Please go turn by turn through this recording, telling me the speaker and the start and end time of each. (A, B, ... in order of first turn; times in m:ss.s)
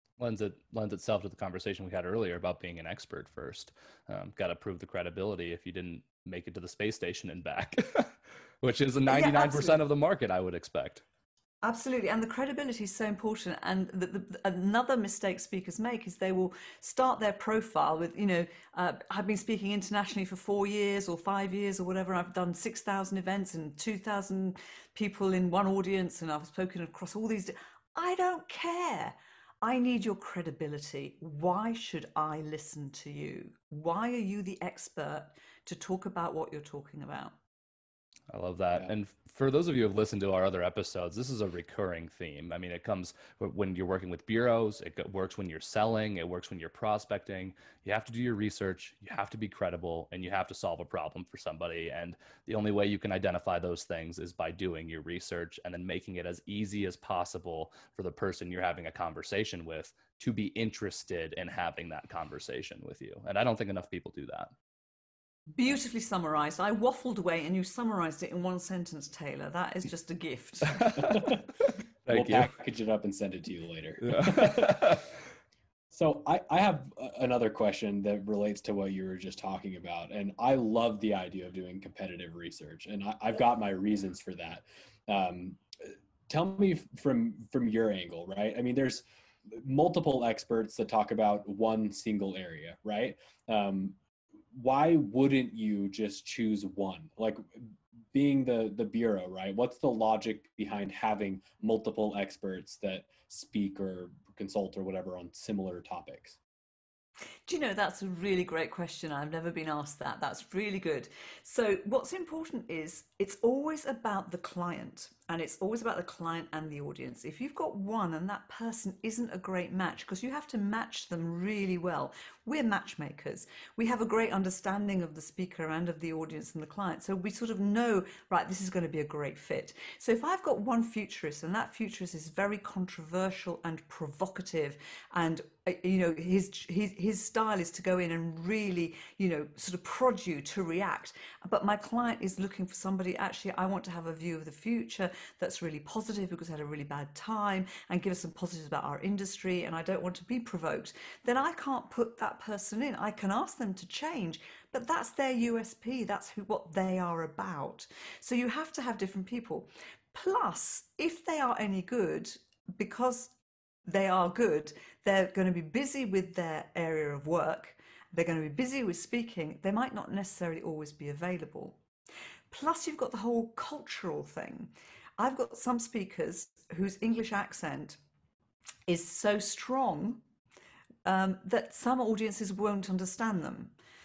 0:00.2-0:11.0 A
0:09.1-0:09.8 B
0:11.6-0:37.3 B
0:38.3-1:04.5 A
1:05.5-1:10.8 B
1:10.7-1:11.4 A
1:11.0-1:11.5 C
1:12.1-1:12.5 A
1:12.1-1:15.0 C
1:14.0-1:15.0 A
1:15.9-1:34.0 C
1:34.5-1:46.4 C
1:47.5-2:43.3 B
2:43.8-2:51.8 B
2:52.5-2:58.0 B
2:58.9-3:00.2 B
3:01.0-3:03.7 B